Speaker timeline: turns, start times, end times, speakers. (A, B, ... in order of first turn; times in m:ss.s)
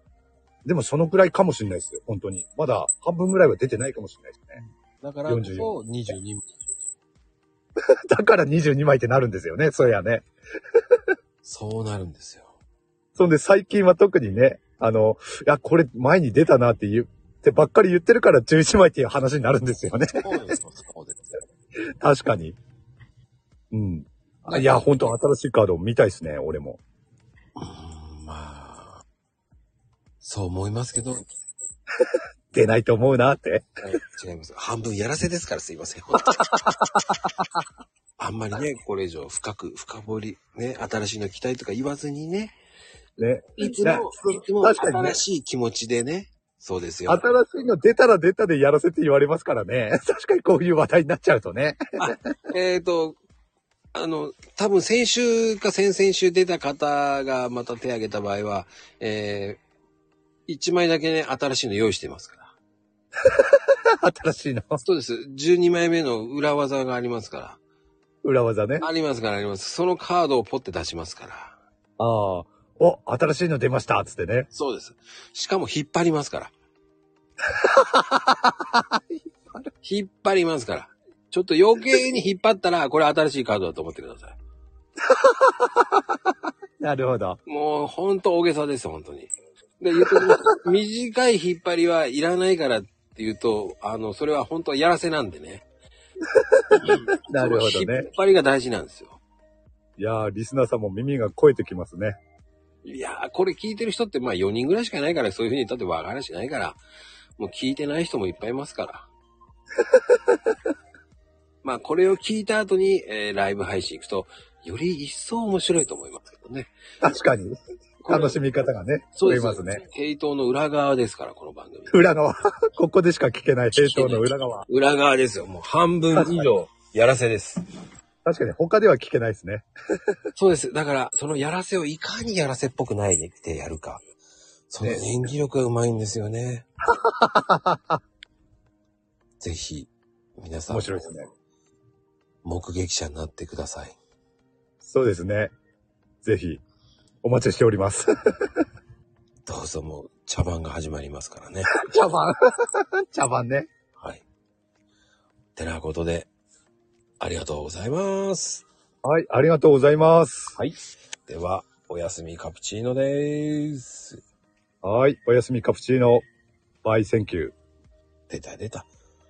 0:00.6-0:04.6 A
0:05.0-0:06.5 B
0:05.3-0:05.8 A
0:08.1-0:10.3 A
0:11.4-0:12.5 B
0:13.2-0:20.5 A
0:20.2-0:21.4 B
0:22.0-0:22.6 A
0:23.7-0:26.8 A
0:24.5-0:25.2 B
0:27.6-0:29.0 B
0:30.2-0:31.2 B
0:32.0-0:33.7 A
0:33.8-0:36.7 B
0:36.4-0:37.6 A
0:38.2-0:42.6 B
0:43.2-0:45.2 A
0:43.6-0:47.4 B
0:47.1-0:51.8 A
0:52.0-0:53.2 B
0:53.9-0:59.6 B
1:00.5-1:02.6 B
1:03.2-1:04.8 A
1:04.8-1:07.6 B
1:08.2-1:08.9 A
1:08.8-1:11.6 B
1:12.0-1:14.5 A
1:14.5-1:16.5 B
1:17.5-1:19.6 A
1:19.8-1:24.4 B
1:25.0-1:27.4 A
1:27.5-1:35.7 B
1:30.0-1:30.6 A
1:36.3-1:38.1 A
1:36.7-1:39.2 B
1:40.0-1:42.2 A
1:42.8-1:46.8 B
1:47.4-1:49.1 B
1:49.8-1:50.5 A
1:51.6-1:56.7 B
1:57.0-1:59.8 A
1:58.0-1:58.4 B
1:59.2-2:02.1 B
2:01.9-2:04.7 A
2:03.7-2:07.6 B
2:06.1-2:06.5 A
2:08.2-2:10.2 A
2:10.4-2:14.0 B
2:14.7-2:16.7 B
2:16.9-2:18.0 A
2:19.4-2:21.2 B
2:20.7-2:21.3 A
2:22.4-2:24.0 B
2:24.8-2:25.5 A
2:26.2-2:26.6 A
2:27.2-2:28.7 A
2:29.5-2:31.8 B
2:31.8-2:33.7 A
2:34.0-2:34.2 B
2:35.6-2:36.3 B
2:37.2-2:38.7 B
2:39.0-2:40.7 A
2:41.3-2:44.2 B
2:44.8-2:46.3 A
2:46.8-2:47.6 A
2:48.3-2:48.9 B